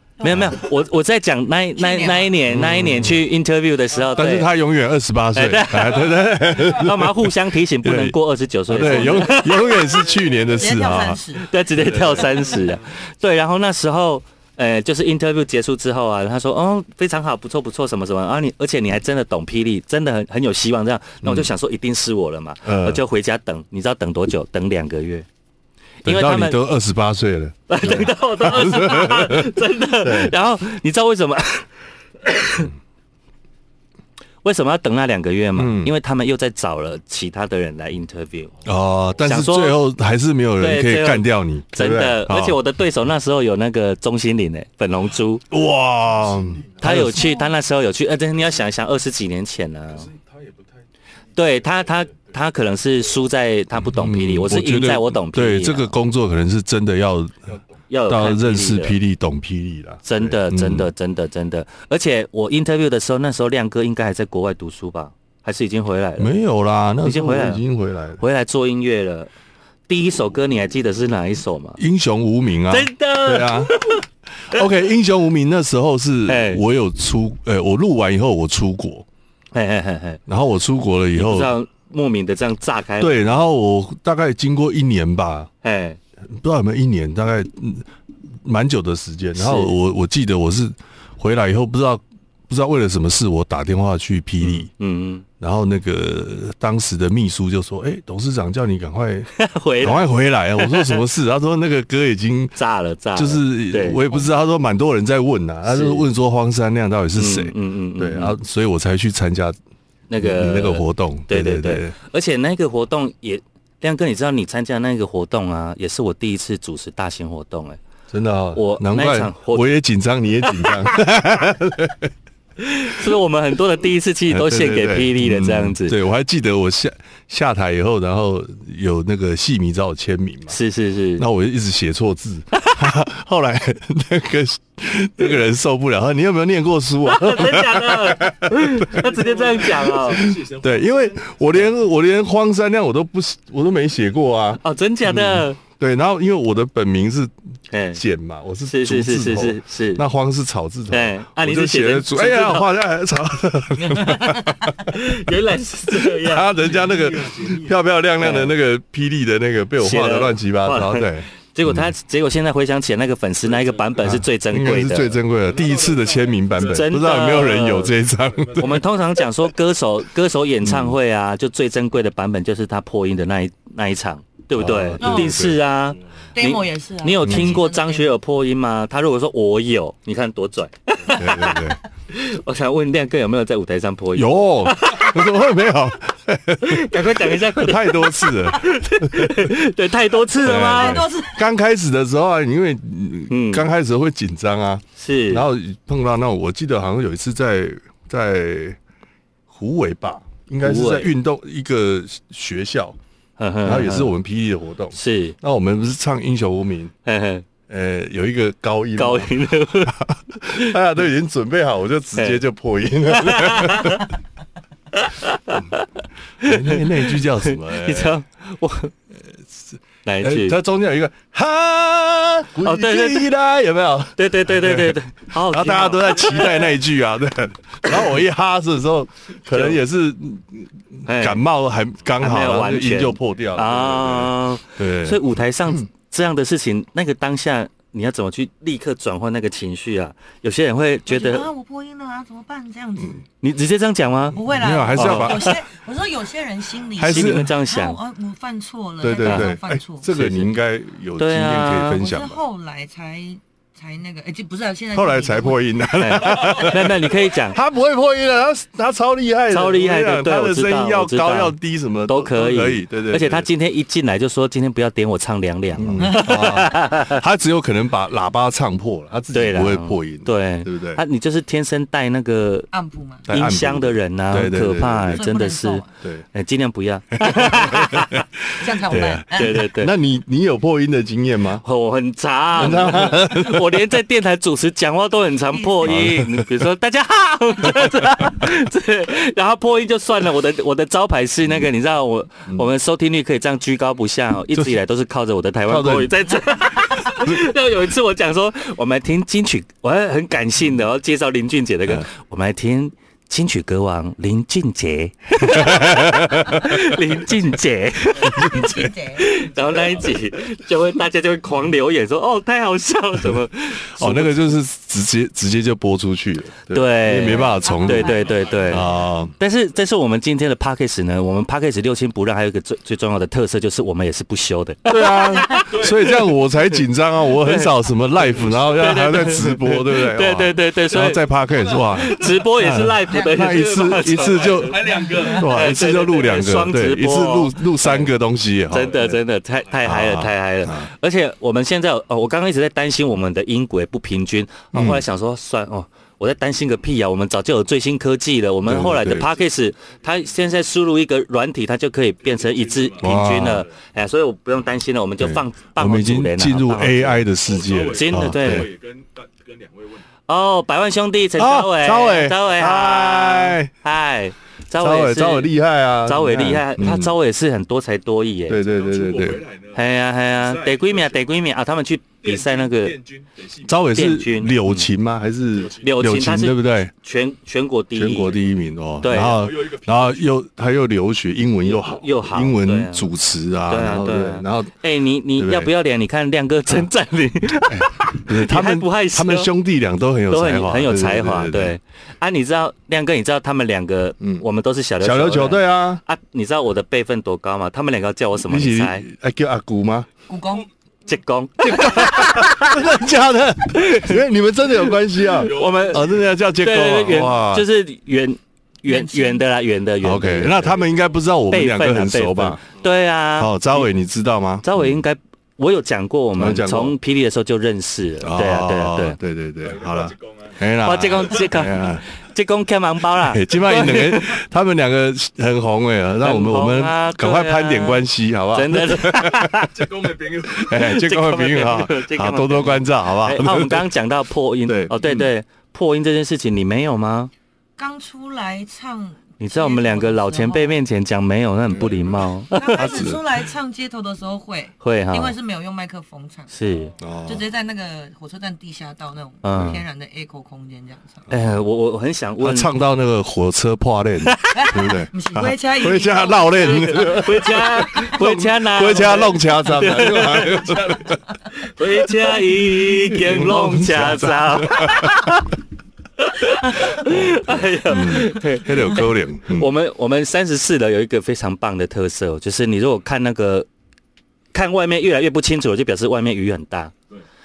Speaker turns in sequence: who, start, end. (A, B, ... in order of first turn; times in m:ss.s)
0:00.2-0:04.5 A
0:00.2-0:00.6 B
0:01.8-0:02.4 C
0:02.5-0:03.2 B
0:03.9-0:04.3 D
0:04.2-0:08.2 B
0:05.3-0:09.8 A
0:08.7-0:11.2 B
0:10.5-0:11.4 C
0:11.4-0:25.2 A
0:11.8-0:12.3 B
0:11.8-0:12.8 D
0:21.2-0:21.5 B
0:22.6-0:23.0 B
0:26.0-0:26.6 A
0:26.0-0:30.3 B
0:27.7-0:31.7 A
0:32.2-0:32.7 A
0:34.4-0:38.5 A
0:35.6-0:35.9 B
0:38.6-0:42.6 B
0:39.2-0:39.8 A
0:40.6-0:45.4 A
0:45.5-0:47.2 B
0:46.0-0:47.0 D
0:46.8-0:50.1 A
0:47.1-0:47.5 C
0:49.9-0:52.4 D
0:51.3-0:55.9 A
0:53.8-0:57.5 B
0:57.9-0:59.0 A
0:58.1-1:00.9 B
1:00.0-1:06.3 A
1:06.2-1:08.2 B
1:07.0-1:07.6 A
1:08.2-1:09.3 A
1:09.9-1:11.8 A
1:11.8-1:13.8 B
1:12.7-1:14.6 A
1:14.5-1:19.0 B
1:16.3-1:16.6 A
1:19.5-1:20.2 A
1:20.3-1:21.5 B
1:21.1-1:23.2 A
1:23.0-1:25.5 B
1:25.6-1:26.0 A
1:26.3-1:27.9 B
1:28.4-1:34.7 B
1:29.4-1:29.7 A
1:34.4-1:35.2 A
1:35.4-1:39.3 B
1:39.3-1:41.0 A
1:39.8-1:42.5 B
1:42.6-1:44.2 A
1:43.1-1:49.6 B
1:45.7-1:46.0 A
1:47.2-1:48.3 A
1:50.1-1:57.8 A
1:50.2-1:51.9 B
1:58.1-2:02.1 B
1:58.5-1:59.8 A
2:00.5-2:00.9 A
2:02.6-2:06.0 A
2:04.3-2:10.6 B
2:10.5-2:11.2 A
2:11.2-2:19.1 B
2:17.0-2:20.2 A
2:18.8-2:21.7 D
2:20.0-2:27.3 B
2:24.6-2:25.6 A
2:27.7-2:28.0 A
2:27.9-2:35.0 B
2:28.7-2:30.0 A
2:30.9-2:32.7 A
2:33.8-2:36.5 A
2:36.1-2:41.9 B
2:36.6-2:37.8 D
2:38.2-2:38.5 A
2:39.8-2:45.2 A
2:43.4-2:44.2 D
2:44.0-2:48.8 B
2:45.4-2:47.6 D
2:46.6-2:47.9 A
2:48.2-2:48.9 D
2:48.6-3:05.3 A
2:50.6-2:51.0 B
2:54.6-2:55.6 B
2:55.0-2:55.4 C
2:56.3-2:58.1 C
2:57.2-2:57.6 B
3:01.1-3:01.8 B
3:04.1-3:09.6 B
3:06.6-3:11.1 A
3:10.4-3:18.8 B
3:10.5-3:11.4 C
3:13.3-3:13.6 A
3:15.0-3:15.4 A
3:19.5-3:23.0 B
3:20.6-3:21.1 A
3:23.4-3:24.1 A
3:23.6-3:26.9 B
3:24.9-3:25.4 A
3:27.0-3:27.4 A
3:27.7-3:29.3 B
3:29.0-3:30.0 A
3:29.9-3:34.1 B
3:33.1-3:34.1 A
3:34.9-3:38.9 A
3:36.4-3:38.2 B
3:39.5-3:55.2 B
3:40.0-3:40.6 A
3:42.6-3:43.3 A
3:44.2-3:46.7 A
3:49.5-3:49.8 A
3:51.0-3:51.4 A
3:52.2-4:01.5 A
4:01.1-4:03.2 C
4:03.4-4:04.4 A
4:04.3-4:10.1 C
4:04.4-4:05.5 B
4:04.9-4:05.6 A
4:06.9-4:07.5 B
4:07.0-4:08.0 A
4:09.0-4:12.4 B
4:09.2-4:09.5 A
4:10.1-4:10.5 A
4:11.2-4:12.0 A
4:11.9-4:15.6 C
4:14.9-4:23.5 B
4:16.0-4:17.6 A
4:19.5-4:21.5 A
4:22.1-4:27.2 A
4:25.8-4:31.0 B
4:26.0-4:26.4 C
4:29.3-4:32.7 A
4:32.7-4:33.2 C
4:33.2-4:35.2 B
4:33.3-4:38.2 A
4:35.1-4:35.9 C
4:37.2-4:38.2 B
4:38.6-4:39.6 C
4:38.8-4:41.6 B
4:39.3-4:39.9 A
4:41.6-5:14.5 A
4:42.5-4:43.7 B
4:45.5-4:45.9 C
4:45.8-4:46.5 B
4:47.8-4:48.4 B
4:54.5-4:54.8 B
4:55.7-4:56.2 B
5:05.4-5:06.9 B
5:08.2-5:09.2 C
5:08.3-5:08.8 B
5:09.3-5:10.2 D
5:13.9-5:18.2 B
5:16.7-5:26.2 A
5:17.2-5:18.4 C
5:18.0-5:19.1 D
5:18.7-5:19.3 B
5:24.8-5:39.2 B
5:25.7-5:26.2 D
5:27.4-5:27.7 A
5:28.7-5:31.2 A
5:30.9-5:32.5 D
5:31.9-5:34.8 A
5:33.5-5:36.4 D
5:35.0-5:35.2 C
5:35.4-5:38.1 A
5:38.7-5:57.2 A
5:38.7-5:40.0 D
5:39.8-5:40.9 B
5:44.7-5:45.0 B
5:48.6-5:49.2 B
5:49.1-5:50.4 D
5:52.2-5:53.7 D
5:53.0-5:53.6 B
5:55.2-5:58.7 B
5:57.4-6:00.1 D
5:57.9-5:58.7 A
6:00.3-6:05.5 A
6:01.4-6:03.7 B
6:04.8-6:07.1 B
6:06.0-6:08.6 A
6:08.5-6:09.4 B
6:08.6-6:11.2 D
6:09.7-6:13.0 A
6:12.2-6:13.9 D
6:13.6-6:16.9 B
6:13.9-6:14.9 A
6:15.5-6:16.0 D
6:15.8-6:18.4 A
6:17.9-6:24.8 B
6:19.0-6:19.4 A
6:19.1-6:20.3 D
6:21.7-6:23.1 A
6:23.7-6:29.5 A
6:25.4-6:25.7 B
6:27.7-6:31.8 B
6:30.3-6:39.0 A
6:35.0-6:36.0 B
6:38.4-6:40.1 B
6:40.3-6:40.7 C
6:41.1-6:42.8 A
6:41.6-6:47.6 B
6:43.7-6:44.1 A
6:45.3-6:46.3 D
6:45.4-6:50.8 A
6:48.8-6:49.4 C
6:50.0-6:52.6 B
6:51.5-6:53.9 A
6:53.4-6:55.0 B
6:54.6-6:59.2 A
6:56.4-6:57.0 B
6:58.2-7:02.0 B
6:59.6-7:00.7 D
7:00.8-7:04.4 A
7:03.2-7:09.5 B
7:06.2-7:09.7 A
7:09.6-7:10.9 D
7:10.5-7:13.9 B
7:10.7-7:17.3 A
7:14.6-7:15.3 B
7:17.8-7:20.8 C
7:19.4-7:23.1 A
7:22.5-7:31.2 C
7:22.7-7:23.2 B
7:24.8-7:25.4 A
7:26.5-7:26.9 A
7:27.0-7:27.4 B
7:29.4-7:29.8 A
7:31.3-7:32.7 A
7:32.4-7:41.2 B
7:34.2-7:34.7 A
7:34.5-7:37.4 C
7:36.9-7:40.8 A
7:40.1-7:41.1 D
7:41.6-7:45.5 A
7:42.8-7:45.1 B
7:46.2-7:53.7 A
7:47.0-7:49.7 B
7:54.5-7:56.9 A